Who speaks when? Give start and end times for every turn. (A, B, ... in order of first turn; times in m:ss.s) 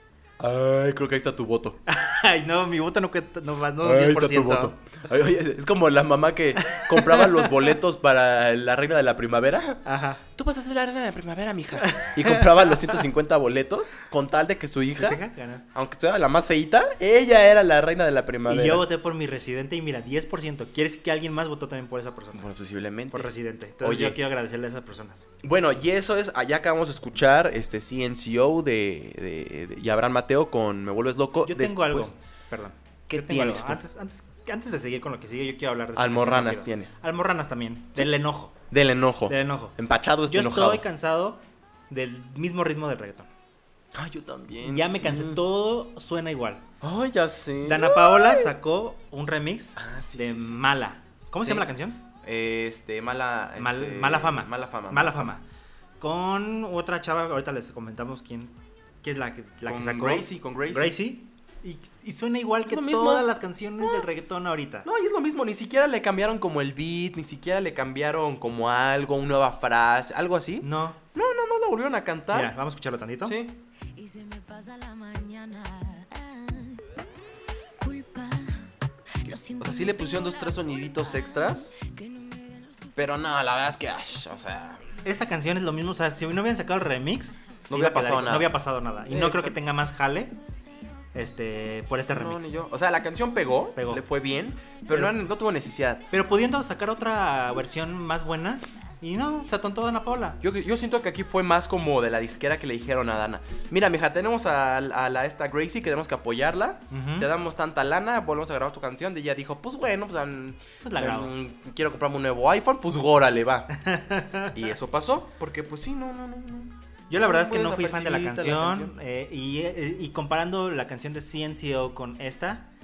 0:00.4-0:01.8 A
0:01.9-0:04.7 B
0:03.8-0:09.8 A
0:06.6-0:07.6 B
0:09.8-0:10.2 B
0:10.3-0:15.2 A
0:11.8-0:12.9 B
0:15.0-0:15.6 B
0:15.7-0:18.8 A
0:18.5-0:22.5 B
0:22.3-0:24.2 A
0:23.1-0:25.3 B
0:25.4-0:32.1 A
0:31.4-0:38.5 B
0:33.1-0:33.8 A
0:35.9-0:37.0 A
0:38.7-0:40.8 A
0:39.3-0:39.8 B
0:40.3-0:43.3 B
0:43.9-0:45.4 A
0:44.6-0:46.6 B
0:46.8-0:48.5 A
0:47.6-0:52.0 B
0:49.8-0:50.6 A
0:51.4-0:51.7 A
0:52.2-0:55.4 A
0:53.6-0:55.4 B
0:56.0-1:04.9 B
0:59.6-1:00.9 A
1:02.7-1:03.3 A
1:03.8-1:04.1 A
1:04.8-1:12.5 A
1:10.6-1:11.0 B
1:12.3-1:13.4 B
1:13.2-1:13.6 A
1:13.9-1:16.8 C
1:17.8-1:23.0 C
1:19.6-1:21.7 A
1:23.0-1:24.9 A
1:25.0-1:30.3 B
1:27.7-1:28.5 A
1:29.1-1:29.6 A
1:31.1-1:32.5 B
1:32.1-1:36.0 A
1:33.8-1:34.0 B
1:34.9-1:35.1 B
1:36.1-1:40.4 B
1:40.4-1:53.7 A
1:46.9-1:47.3 B
1:50.8-1:51.3 B
1:53.8-1:54.6 B
1:54.5-1:58.9 A
1:57.1-2:02.7 B